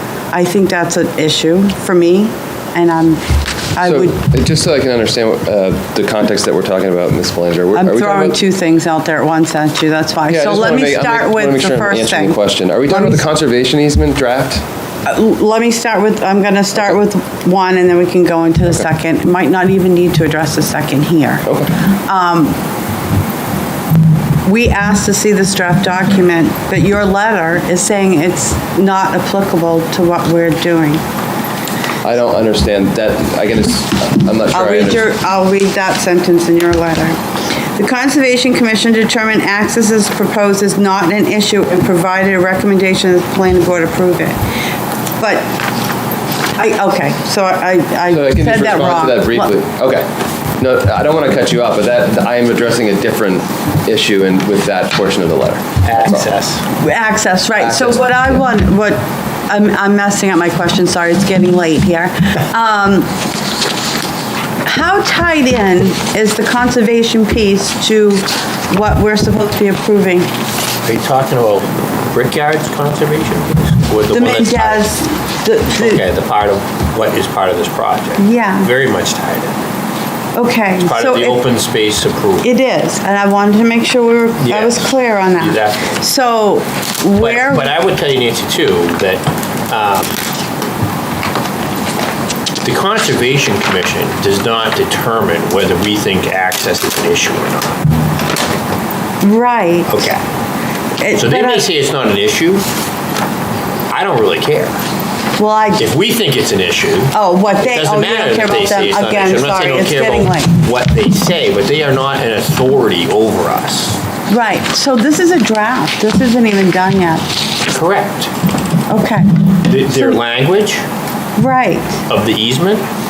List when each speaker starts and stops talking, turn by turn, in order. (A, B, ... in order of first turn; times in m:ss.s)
0:00.3-0:03.2 A
0:03.7-0:04.2 A
0:03.8-0:08.4 B
0:07.7-0:13.2 A
0:10.3-0:14.6 B
0:15.0-0:22.6 A
0:21.5-0:21.8 B
0:24.4-0:31.0 A
0:32.0-0:35.1 B
0:34.5-0:37.2 A
0:37.8-0:44.4 A
0:45.2-0:45.5 A
0:46.6-0:49.5 A
0:48.1-0:56.3 B
0:55.8-0:56.6 C
0:56.8-1:03.1 A
0:57.6-0:58.4 B
1:04.6-1:10.3 A
1:10.8-1:14.9 C
1:14.1-1:16.0 A
1:15.7-1:19.6 C
1:18.2-1:18.7 A
1:20.4-1:21.4 A
1:20.8-1:22.5 C
1:22.4-1:27.7 A
1:24.4-1:25.9 C
1:27.2-1:30.2 C
1:32.6-1:37.8 C
1:39.2-1:39.9 A
1:39.9-1:40.2 C
1:41.0-1:41.7 A
1:41.1-1:42.6 C
1:43.9-1:44.8 C
1:45.4-1:45.9 A
1:45.8-1:54.0 C
1:47.1-1:50.6 A
1:54.3-1:57.3 A
1:57.7-1:58.3 C
1:58.9-2:00.2 A
1:59.6-2:00.8 C
2:01.4-2:02.0 A
2:02.1-2:02.8 C